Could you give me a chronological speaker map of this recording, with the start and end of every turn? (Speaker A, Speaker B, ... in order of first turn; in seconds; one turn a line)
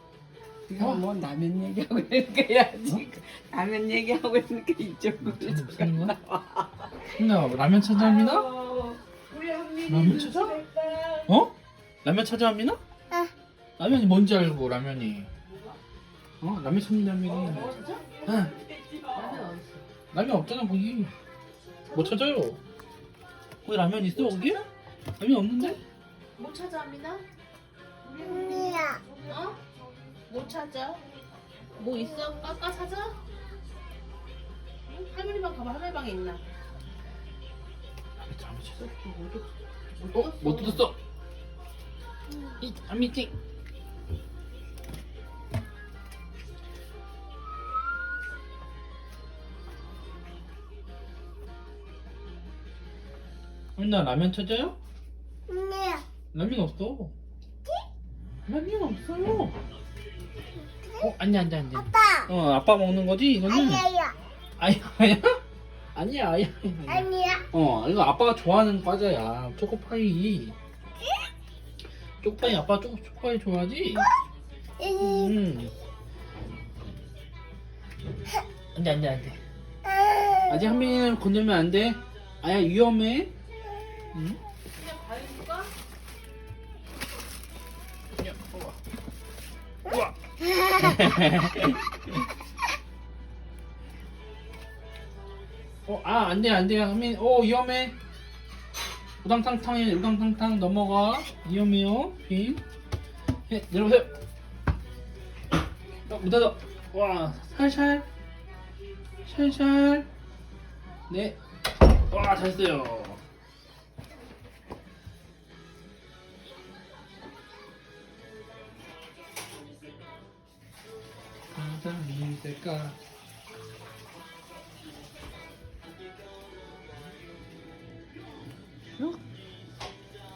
Speaker A: 0.7-6.9
Speaker B: 0.8-1.0
Speaker B: 5.2-6.2
Speaker B: 7.1-8.5
Speaker A: 7.9-11.3
Speaker B: 9.9-10.6
Speaker B: 11.3-12.8
Speaker B: 13.8-15.3
Speaker B: 16.4-18.5
Speaker A: 17.3-19.5
Speaker C: 17.5-18.0
Speaker C: 19.1-19.8
Speaker B: 20.1-21.1
Speaker B: 21.9-22.6
Speaker B: 23.6-24.7
Speaker B: 25.2-25.8
Speaker C: 26.4-27.2
Speaker A: 28.1-29.2
Speaker C: 28.2-29.6
Speaker D: 28.3-29.0
Speaker C: 30.3-31.1
Speaker C: 31.8-33.2
Speaker C: 34.9-36.4
Speaker B: 38.2-38.9
Speaker C: 39.0-39.4
Speaker C: 40.0-40.9
Speaker B: 40.1-41.0
Speaker B: 42.6-43.3
Speaker B: 53.8-54.8
Speaker D: 55.5-56.0
Speaker B: 56.3-57.1
Speaker B: 58.5-59.5
Speaker B: 61.0-63.9
Speaker D: 62.0-62.3
Speaker D: 63.5-64.1
Speaker B: 64.6-65.4
Speaker B: 66.0-70.6
Speaker D: 66.9-67.4
Speaker B: 72.2-74.1
Speaker D: 74.8-75.3
Speaker B: 75.0-75.7
Speaker B: 78.8-79.4
Speaker B: 80.5-83.3
Speaker B: 84.1-84.4
Speaker C: 84.7-85.7
Speaker B: 88.2-88.8
Speaker B: 89.9-91.8
Speaker B: 95.9-98.0
Speaker B: 99.2-102.6
Speaker B: 103.5-104.1
Speaker B: 106.1-108.1
Speaker B: 109.2-110.1
Speaker B: 111.1-113.2
Speaker B: 121.5-123.0